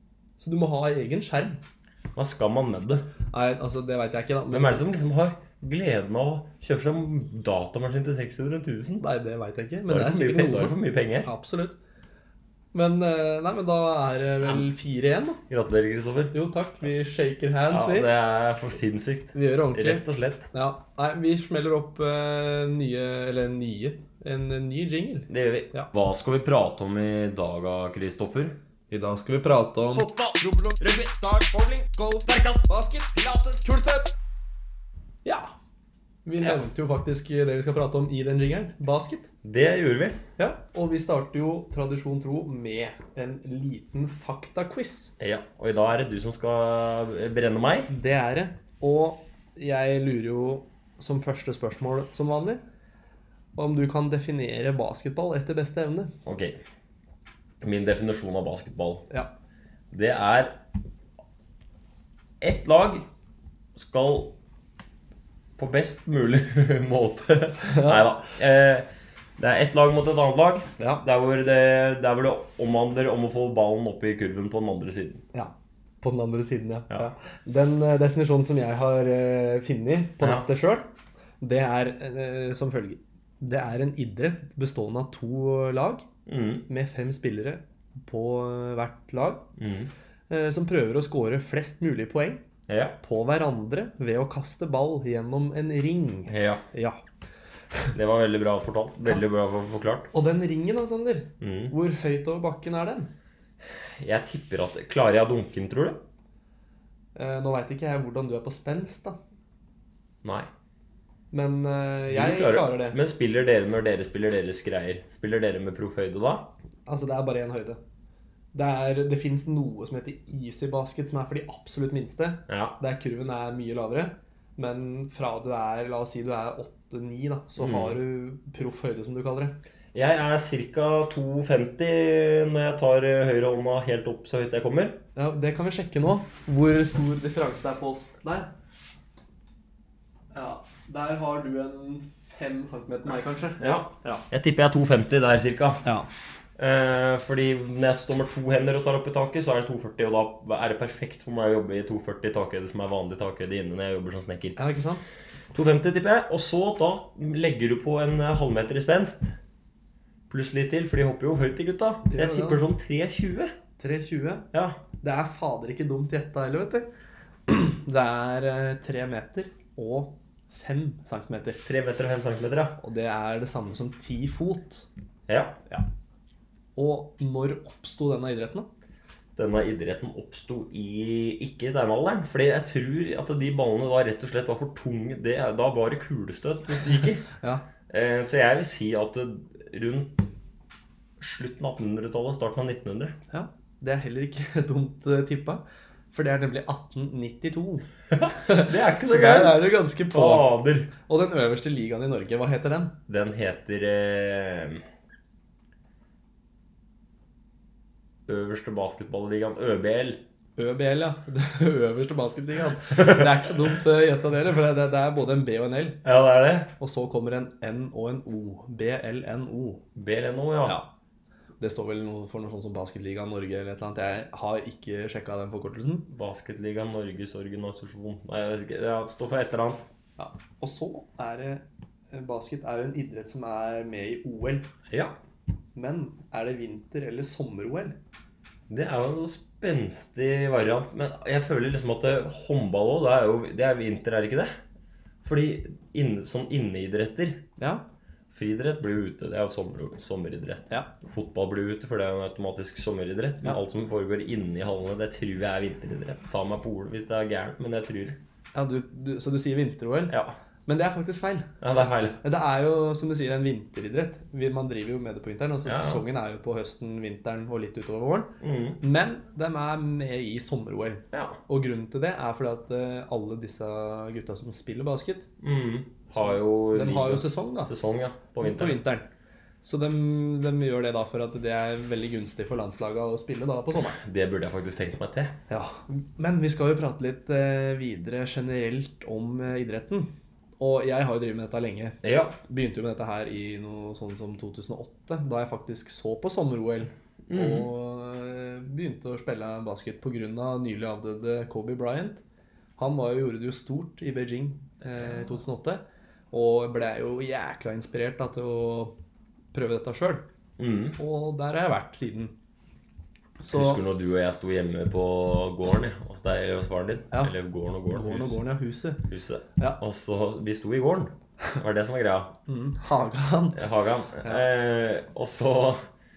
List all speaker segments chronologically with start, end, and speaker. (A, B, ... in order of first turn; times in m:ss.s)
0:00.4-0:01.6 A
0:02.1-0:03.0 B
0:03.3-0:04.9 A
0:04.5-0:09.0 B
0:09.0-0:11.8 A
0:09.9-0:11.3 B
0:12.7-0:15.4 A
0:15.5-0:16.3 B
0:16.3-0:18.1 A
0:17.7-0:20.5 B
0:19.3-0:25.9 A
0:25.3-0:28.6 B
0:28.9-0:30.1 A
0:29.9-0:34.1 B
0:35.2-0:35.5 A
0:36.2-0:39.3 A
0:39.4-0:40.2 B
0:40.4-0:45.1 A
0:45.2-0:47.9 B
0:47.9-0:52.6 A
0:53.6-0:56.1 A
0:56.2-0:56.6 B
0:57.6-0:59.1 B
0:59.9-1:00.5 B
1:02.4-1:03.1 B
1:03.8-1:04.3 B
1:05.6-1:08.8 B
1:07.6-1:08.2 A
1:09.4-1:15.2 B
1:10.8-1:11.0 A
1:15.3-1:20.9 A
1:20.2-1:20.4 B
1:21.4-1:26.0 A
1:26.2-1:26.6 B
1:26.7-1:29.4 A
1:29.6-1:29.9 B
1:30.3-1:32.4 A
1:32.7-1:33.0 B
1:33.0-1:37.0 A
1:36.3-1:36.6 B
1:37.9-1:40.1 B
1:40.1-1:43.1 A
1:41.4-1:41.7 B
1:44.0-1:46.0 B
1:47.1-1:49.2 A
1:51.3-1:53.0 A
1:52.1-1:56.5 B
1:56.9-1:57.8 A
1:58.5-2:09.5 A
2:02.5-2:02.8 B
2:07.6-2:08.0 B
2:09.9-2:15.0 B
2:15.2-2:18.5 A
2:20.3-2:24.2 A
2:23.6-2:25.8 B
2:26.6-2:34.6 B
2:34.6-2:35.0 A
2:35.5-2:39.4 B
2:40.3-2:43.5 B
2:42.1-2:42.6 A
2:43.8-2:44.5 A
2:44.5-2:44.8 B
2:45.0-2:46.9 A
2:47.5-2:51.6 A
2:51.6-2:52.8 B
2:52.8-2:54.9 A
2:55.3-2:55.6 B
2:56.8-2:58.7 A
2:59.4-3:07.2 B
3:07.9-3:10.2 B
3:11.2-3:13.1 B
3:13.3-3:22.9 A
3:18.1-3:20.9 B
3:23.1-3:24.8 B
3:28.3-3:30.2 B
3:30.6-3:36.0 A
3:36.0-3:36.7 B
3:36.8-3:39.8 A
3:39.9-3:40.8 B
3:41.6-3:46.1 A
3:46.1-3:49.9 B
3:50.2-3:54.7 A
3:54.9-3:55.1 B
3:55.8-3:58.0 A
3:58.7-4:04.5 B
4:05.2-4:07.4 B
4:07.6-4:07.8 A
4:08.3-4:18.2 B
4:18.5-4:21.6 A
4:20.1-4:20.4 B
4:21.6-4:22.2 B
4:22.2-4:35.3 A
4:25.6-4:26.0 B
4:28.4-4:28.8 B
4:31.1-4:31.4 B
4:35.4-4:38.8 B
4:36.2-4:37.7 A
4:38.4-4:39.1 A
4:39.6-4:44.0 A
4:43.7-4:45.4 B
4:45.5-5:02.2 A
4:52.0-4:52.4 B
4:57.3-4:57.7 B
5:02.8-5:08.9 A
5:09.5-5:10.2 A
5:10.6-5:11.0 B
5:11.0-5:12.3 A
5:13.4-5:13.8 A
5:13.5-5:18.4 B
5:17.9-5:19.8 A
5:19.1-5:22.3 B
5:22.5-5:23.6 A
5:23.5-5:25.8 B